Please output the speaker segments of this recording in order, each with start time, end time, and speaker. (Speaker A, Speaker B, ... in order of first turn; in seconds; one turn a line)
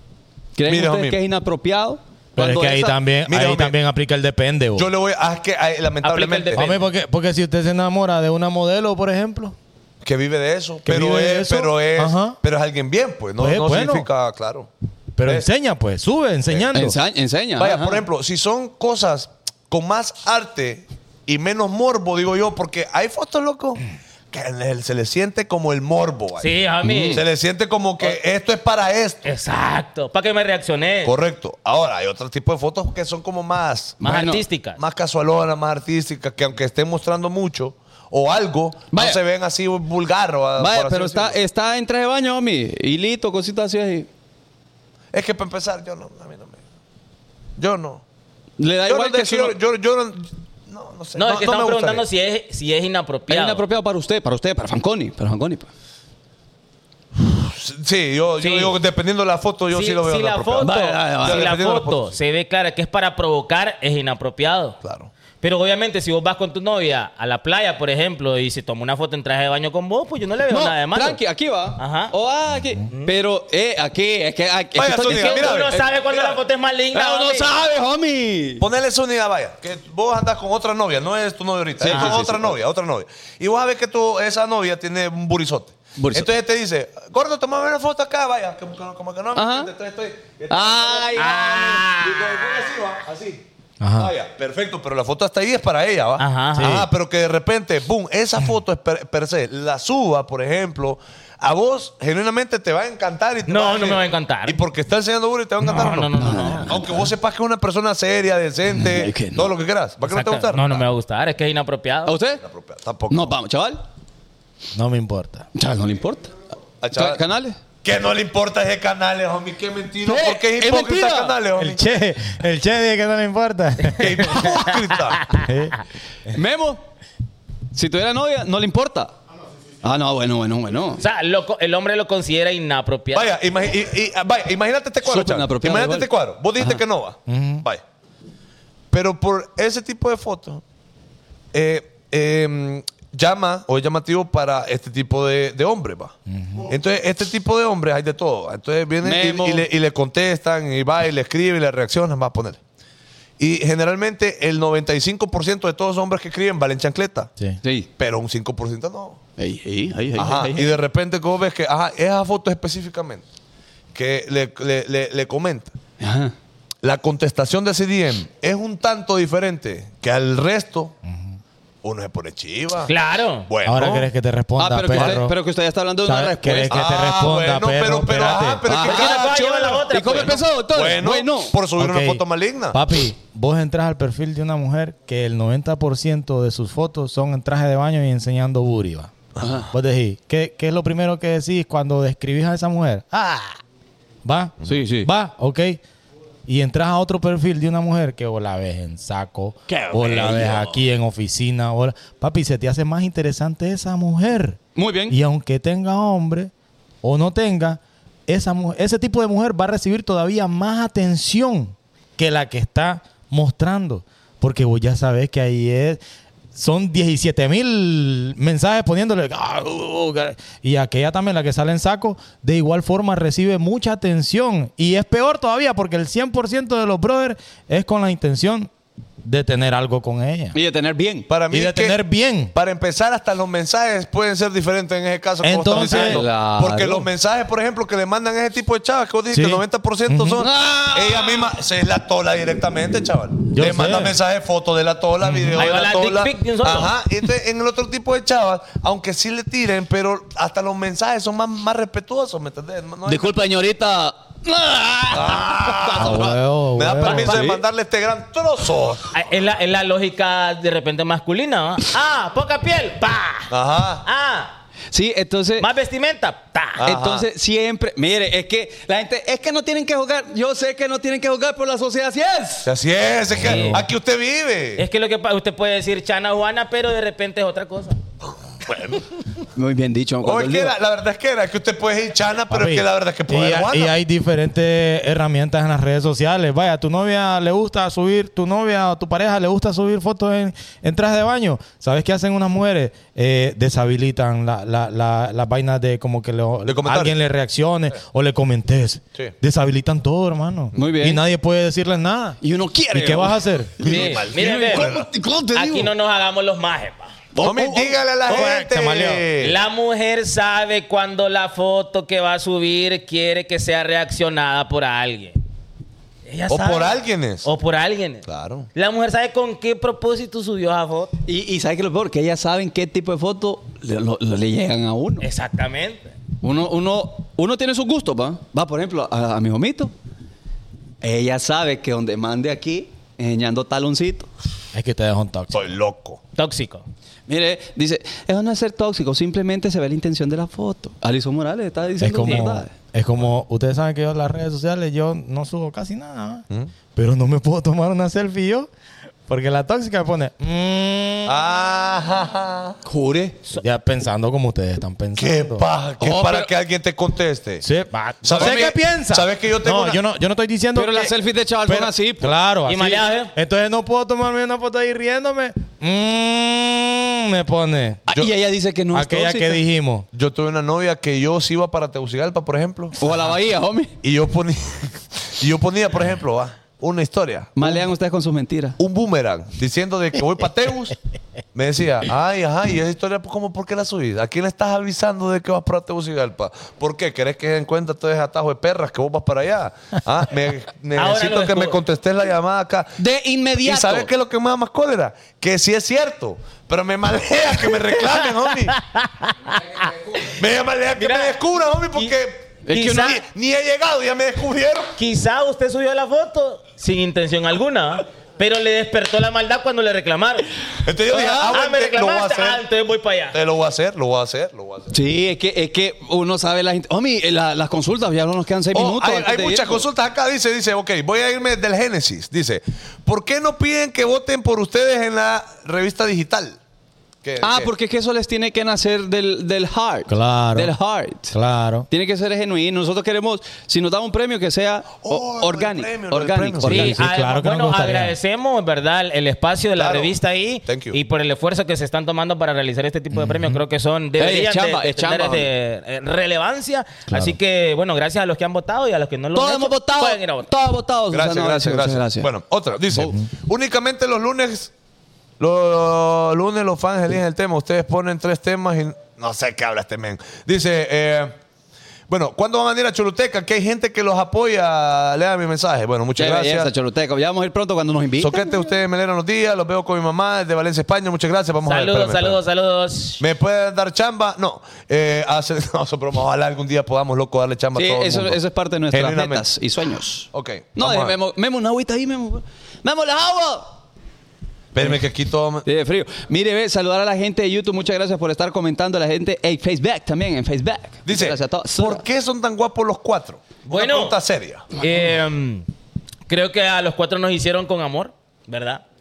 Speaker A: 0.6-3.0
Speaker B: 0.7-1.2
Speaker C: 2.4-4.9
Speaker B: 3.3-3.7
Speaker B: 4.8-6.7
Speaker D: 6.0-6.8
Speaker C: 6.5-9.6
Speaker B: 10.0-14.7
Speaker C: 10.8-12.4
Speaker C: 13.4-14.1
Speaker C: 15.2-17.0
Speaker B: 16.5-16.8
Speaker A: 16.7-18.0
Speaker B: 17.6-26.5
Speaker D: 26.4-27.2
Speaker A: 26.8-27.2
Speaker B: 27.1-29.3
Speaker D: 29.2-31.1
Speaker B: 31.1-34.0
Speaker D: 34.0-34.8
Speaker A: 34.0-34.4
Speaker B: 34.8-41.4
Speaker A: 38.9-39.2
Speaker A: 40.6-44.1
Speaker B: 45.1-46.6
Speaker B: 47.6-48.0
Speaker A: 48.6-49.6
Speaker B: 48.9-52.0
Speaker D: 51.1-53.6
Speaker A: 53.3-55.7
Speaker B: 57.1-62.1
Speaker D: 58.4-58.8
Speaker D: 59.7-64.8
Speaker A: 60.6-61.5
Speaker B: 64.8-65.1
Speaker D: 65.4-71.2
Speaker A: 70.5-75.9
Speaker D: 71.8-72.1
Speaker B: 74.7-76.4
Speaker D: 75.1-77.5
Speaker A: 76.9-78.6
Speaker B: 78.6-93.4
Speaker A: 81.8-82.6
Speaker D: 81.9-82.2
Speaker A: 86.0-86.3
Speaker A: 89.3-89.7
Speaker A: 90.5-91.5
Speaker D: 91.2-92.7
Speaker C: 93.8-94.1
Speaker B: 94.0-110.9
Speaker D: 96.2-96.8
Speaker C: 96.5-96.9
Speaker D: 103.5-104.6
Speaker D: 105.6-106.8
Speaker A: 106.2-107.0
Speaker A: 108.7-109.5
Speaker D: 110.0-112.1
Speaker A: 112.0-112.4
Speaker B: 112.4-113.3
Speaker A: 113.1-113.8
Speaker C: 114.7-115.5
Speaker A: 115.5-116.3
Speaker B: 116.8-117.2
Speaker A: 116.9-117.6
Speaker B: 117.8-121.8
Speaker A: 120.0-121.3
Speaker C: 121.5-124.4
Speaker B: 123.9-125.4
Speaker D: 124.4-124.8
Speaker C: 125.3-125.8
Speaker A: 126.3-126.8
Speaker A: 127.7-129.1
Speaker A: 129.8-131.0
Speaker D: 131.0-133.3
Speaker B: 133.1-137.8
Speaker A: 135.0-136.8
Speaker C: 137.3-137.6
Speaker B: 138.9-140.6
Speaker B: 141.5-146.1
Speaker C: 146.3-146.7
Speaker B: 146.7-152.6
Speaker A: 149.0-149.7
Speaker B: 153.4-157.3
Speaker A: 157.6-157.9
Speaker B: 158.0-159.2
Speaker A: 159.4-160.8
Speaker B: 160.2-163.2
Speaker B: 163.9-165.7
Speaker A: 166.0-166.3
Speaker B: 166.8-170.9
Speaker C: 171.1-171.4
Speaker B: 171.8-172.9
Speaker D: 172.9-173.5
Speaker B: 173.5-174.1
Speaker C: 173.6-175.3
Speaker A: 174.6-176.8
Speaker B: 174.9-175.2
Speaker C: 176.0-178.6
Speaker B: 176.7-182.8
Speaker A: 178.7-179.3
Speaker D: 178.8-180.4
Speaker A: 179.9-181.6
Speaker C: 181.8-189.1
Speaker A: 189.4-189.7
Speaker C: 189.7-193.6
Speaker C: 194.2-195.8
Speaker A: 194.6-195.1
Speaker C: 196.4-206.5
Speaker A: 199.7-200.8
Speaker A: 204.8-205.2
Speaker C: 207.0-216.0
Speaker C: 216.6-228.7
Speaker C: 229.2-230.6
Speaker A: 230.5-231.3
Speaker B: 231.3-232.0
Speaker C: 231.5-232.5
Speaker B: 232.5-253.3
Speaker C: 235.4-236.2
Speaker A: 235.7-237.1
Speaker C: 239.3-240.4
Speaker A: 240.4-241.5
Speaker C: 243.5-244.2
Speaker D: 245.5-246.9
Speaker A: 253.1-256.4
Speaker B: 255.1-259.1
Speaker C: 255.9-257.5
Speaker A: 257.0-257.6
Speaker D: 259.1-263.5
Speaker B: 263.5-264.0
Speaker D: 264.0-264.5
Speaker A: 264.9-265.7
Speaker D: 265.6-266.8
Speaker B: 266.8-267.3
Speaker A: 266.8-272.7
Speaker B: 272.6-274.8
Speaker D: 273.4-273.9
Speaker D: 274.8-278.0
Speaker B: 278.6-279.1
Speaker A: 279.5-280.7
Speaker B: 280.2-283.9
Speaker C: 282.5-302.4
Speaker B: 296.6-297.2
Speaker A: 300.7-301.2
Speaker A: 302.4-305.9
Speaker C: 302.9-303.8
Speaker B: 303.8-305.1
Speaker D: 303.8-304.9
Speaker D: 305.5-307.2
Speaker A: 307.3-308.0
Speaker B: 307.4-309.6
Speaker C: 308.3-309.2
Speaker D: 309.4-315.4
Speaker D: 316.3-321.2
Speaker B: 316.5-317.5
Speaker B: 318.3-318.7
Speaker A: 321.2-325.2
Speaker D: 325.2-326.1
Speaker A: 326.4-329.9
Speaker A: 331.0-334.3
Speaker C: 334.7-335.6
Speaker B: 335.5-336.2
Speaker D: 336.4-336.8
Speaker A: 337.3-342.7
Speaker C: 342.0-346.4
Speaker C: 346.9-348.7
Speaker C: 349.3-351.4
Speaker B: 351.2-352.8
Speaker A: 352.8-353.4
Speaker C: 353.6-355.6
Speaker B: 355.2-357.7
Speaker A: 356.0-356.5
Speaker C: 357.6-368.1
Speaker B: 358.2-360.0
Speaker A: 358.4-358.7
Speaker A: 360.7-362.3
Speaker D: 362.7-363.3
Speaker A: 368.1-369.6
Speaker C: 368.9-370.1
Speaker B: 370.1-372.9
Speaker A: 373.0-373.9
Speaker B: 374.0-377.8
Speaker A: 377.6-378.8
Speaker B: 378.8-380.9
Speaker B: 381.5-392.9
Speaker D: 390.9-391.8
Speaker A: 393.0-394.1
Speaker B: 393.6-398.8
Speaker D: 398.2-400.3
Speaker B: 400.2-404.9
Speaker D: 401.0-401.4
Speaker A: 402.7-403.0
Speaker D: 402.7-403.2
Speaker D: 405.0-410.5
Speaker B: 410.8-412.6
Speaker A: 411.1-411.5
Speaker D: 411.2-413.4
Speaker B: 413.3-414.9
Speaker A: 414.9-419.8
Speaker B: 418.7-426.6
Speaker B: 427.2-427.7
Speaker A: 427.4-431.3
Speaker C: 430.1-430.7
Speaker C: 431.3-431.9
Speaker A: 431.9-437.0
Speaker B: 435.0-436.9
Speaker D: 436.6-450.5
Speaker C: 436.7-438.1
Speaker B: 439.8-441.0
Speaker C: 443.2-443.6
Speaker A: 444.2-445.5
Speaker C: 447.1-447.4
Speaker A: 449.3-452.3
Speaker B: 451.1-454.7
Speaker B: 455.4-461.4
Speaker B: 462.1-466.7
Speaker A: 466.2-468.5
Speaker B: 468.2-472.4
Speaker D: 471.7-473.2
Speaker B: 473.2-478.4
Speaker A: 477.7-483.7
Speaker B: 478.9-479.4
Speaker B: 480.3-481.1
Speaker B: 484.7-485.7
Speaker A: 485.6-492.0
Speaker B: 491.1-494.6
Speaker D: 493.7-494.2
Speaker D: 494.7-495.7
Speaker D: 496.3-498.8